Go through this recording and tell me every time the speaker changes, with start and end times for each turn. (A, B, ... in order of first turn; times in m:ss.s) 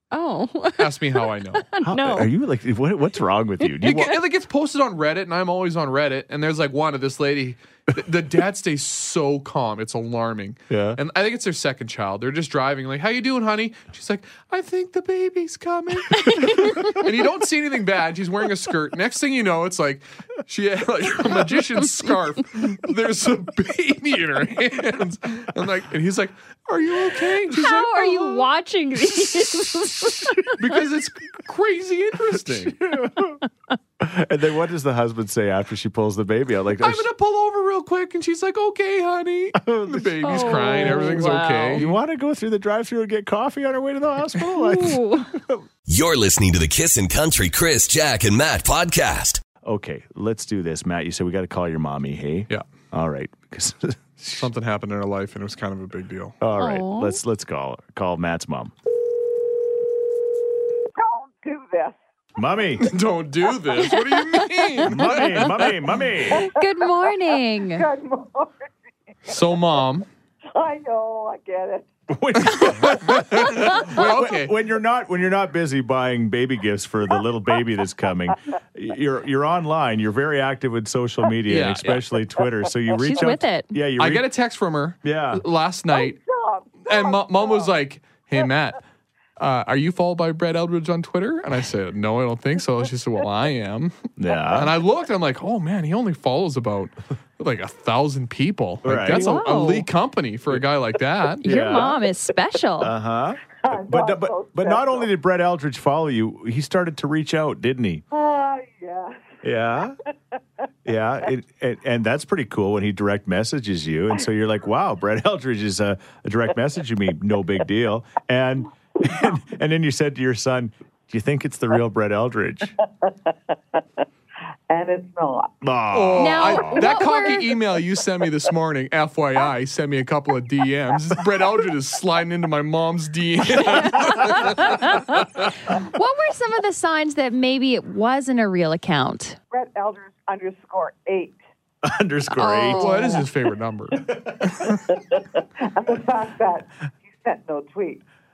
0:00.1-0:02.3 A
0:00.8-0:01.6 B
0:01.8-0:04.2 C
0:03.8-0:28.5 B
0:10.7-0:11.0 C
0:16.2-0:17.0 A
0:27.5-0:30.6 A
0:30.4-0:32.8 B
0:32.4-0:33.4 C
0:34.0-0:37.1 C
0:36.8-0:42.0 B
0:39.6-0:41.2 C
0:40.2-0:41.8 A
0:41.7-0:45.6 C
0:44.5-0:45.3 A
0:45.9-0:49.4 D
0:49.6-0:54.4 C
0:54.2-0:56.4 B
0:56.4-0:58.7 C
0:56.6-0:57.2 A
1:00.9-1:02.0 E
1:02.4-1:02.9 C
1:02.8-1:05.6 B
1:04.1-1:04.7 A
1:04.8-1:06.5 C
1:06.3-1:06.7 E
1:06.5-1:07.8 A
1:07.7-1:08.7 E
1:09.3-1:10.1 B
1:10.6-1:11.9 E
1:12.1-1:24.3 C
1:12.6-1:14.5 B
1:21.5-1:22.0 B
1:23.0-1:23.7 A
1:24.0-1:26.2 B
1:25.0-1:25.4 C
1:25.9-1:27.7 E
1:26.8-1:28.8 B
1:29.4-1:34.0 B
1:34.2-1:34.8 C
1:34.5-1:41.4 B
1:38.8-1:39.3 C
1:39.1-1:39.9 A
1:41.4-1:42.9 A
1:41.4-1:41.9 C
1:42.8-1:48.0 C
1:43.6-1:45.1 E
1:48.1-1:49.4 E
1:49.4-1:50.0 C
1:50.8-2:02.7 C
2:03.0-2:03.8 E
2:04.7-2:05.5 E
2:05.6-2:06.8 C
2:05.9-2:14.7 B
2:06.2-2:07.4 A
2:13.6-2:19.4 A
2:19.5-2:21.4 E
2:21.8-2:23.0 C
2:22.3-2:23.2 A
2:22.8-2:24.0 B
2:24.6-2:28.0 E